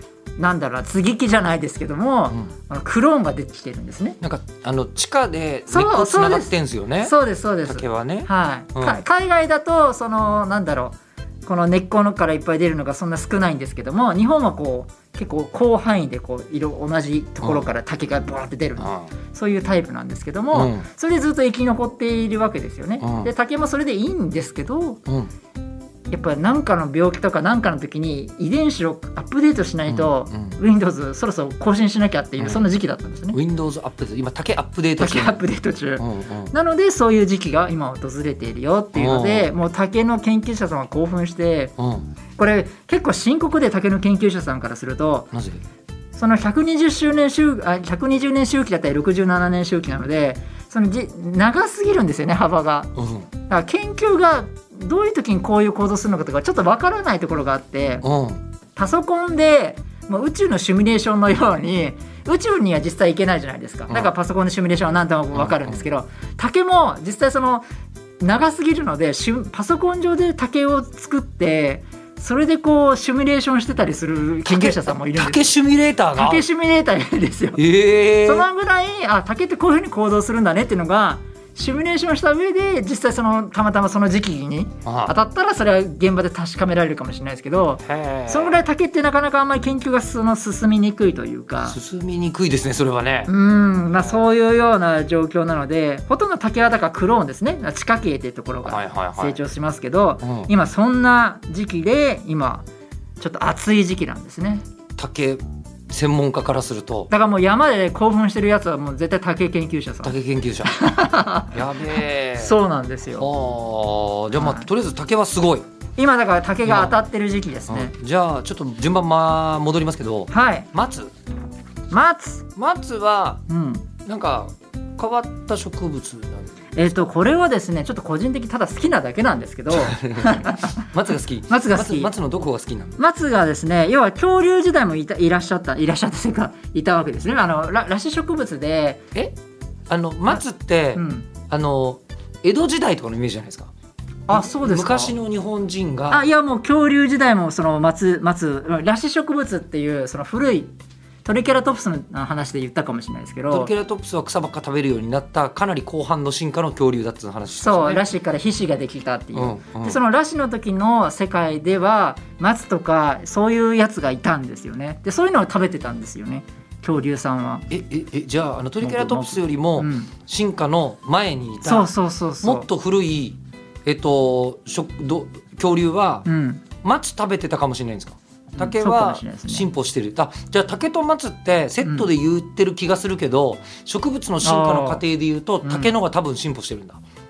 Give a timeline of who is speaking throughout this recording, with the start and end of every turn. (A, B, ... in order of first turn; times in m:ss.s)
0:00.4-0:04.2 A
0:04.2-0:07.1 B
0:05.7-0:25.0 A
0:07.6-0:09.0 B
0:18.8-0:19.1 B
0:20.5-0:20.8 B
0:23.0-0:23.3 B
0:26.1-0:33.4 A
0:29.9-0:30.5 B
0:33.3-0:35.4 B
0:35.0-0:41.7 A
0:36.0-0:36.5 B
0:38.9-0:39.5 B
0:41.8-0:42.1 B
0:42.4-0:45.3 A
0:45.3-0:45.6 B
0:46.1-0:52.9 A
0:53.0-0:53.3 B
0:53.5-0:58.0 A
0:58.0-0:58.4 B
0:58.8-1:07.6 A
1:05.3-1:05.8 B
1:08.2-1:15.5 A
1:14.5-1:16.4 B
1:16.1-1:17.6 A
1:17.6-1:18.5 B
1:18.2-1:31.8 A
1:24.8-1:25.1 B
1:27.8-1:28.6 B
1:31.6-1:33.3 B
1:33.3-1:42.6 A
1:38.6-1:39.4 B
1:40.2-1:40.5 B
1:43.2-1:44.6 A
1:45.0-1:47.1 B
1:47.1-1:53.3 A
1:50.0-1:50.8 B
1:51.5-1:52.5 B
1:53.1-1:55.6 B
1:54.3-1:54.7 A
1:56.0-1:57.9 A
1:56.6-1:57.0 B
1:57.7-2:01.1 B
2:00.3-2:00.7 A
2:01.9-2:02.5 A
2:02.6-2:03.4 B
2:03.5-2:03.9 A
2:04.0-2:06.6 B
2:06.7-2:10.9 A
2:09.7-2:13.0 B
2:11.5-2:12.1 A
2:13.0-2:19.0 A
2:19.9-2:23.7 B
2:20.9-2:21.3 A
2:24.3-2:25.2 A
2:24.3-2:26.2 B
2:26.1-2:30.7 A
2:31.2-2:33.7 A
2:33.5-2:38.0 B
2:37.6-2:47.7 A
2:39.3-2:40.0 B
2:47.7-2:51.9 B
2:48.8-2:50.1 A
2:51.6-2:52.7 A
2:52.4-2:56.3 B
2:56.2-2:56.6 A
2:56.8-3:07.0 B
2:58.6-2:59.7 A
3:04.4-3:05.0 A
3:05.6-3:05.9 A